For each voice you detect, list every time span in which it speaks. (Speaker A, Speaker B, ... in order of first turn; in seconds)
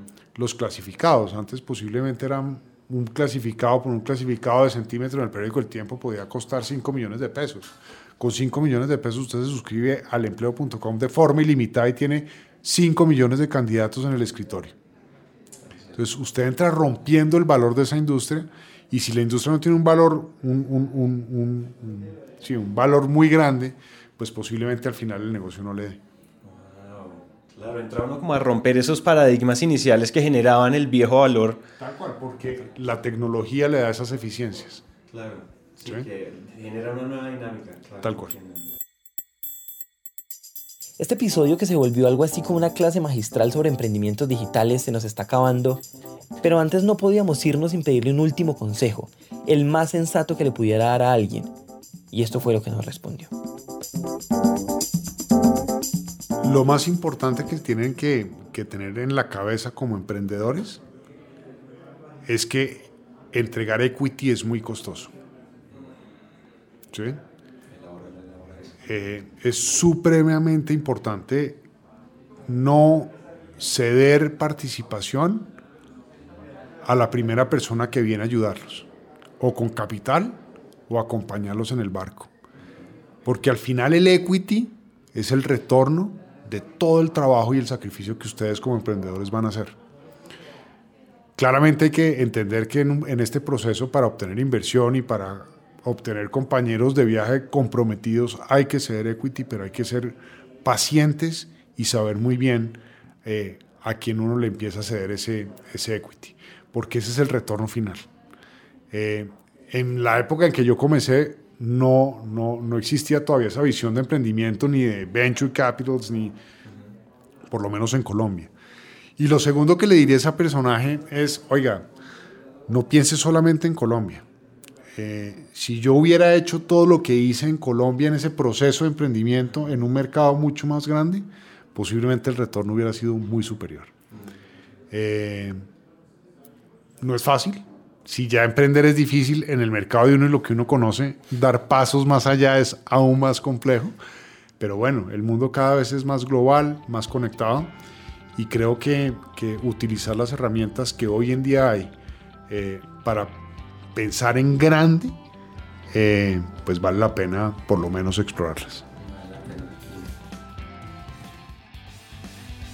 Speaker A: 0.3-14.8, 15.9-26.0, 31.8-34.8, 38.0-38.4, 56.4-60.8, 62.3-65.1, 66.9-67.2, 68.8-71.6, 72.5-75.5, 76.8-78.9, 79.4-82.3, 83.2-89.8, 91.4-108.1, 108.9-116.4, 117.5-118.5, 119.2-121.9, 122.7-124.3, 124.9-133.9, 134.9-135.6, 137.0-144.0, 144.6-147.8, 148.3-152.0, 152.5-153.4, 153.9-155.2, 155.9-158.8
Speaker B: 26.4-31.6, 35.1-38.7, 67.7-68.8, 159.0-160.1
Speaker C: 41.0-45.8, 46.4-51.5, 52.1-53.3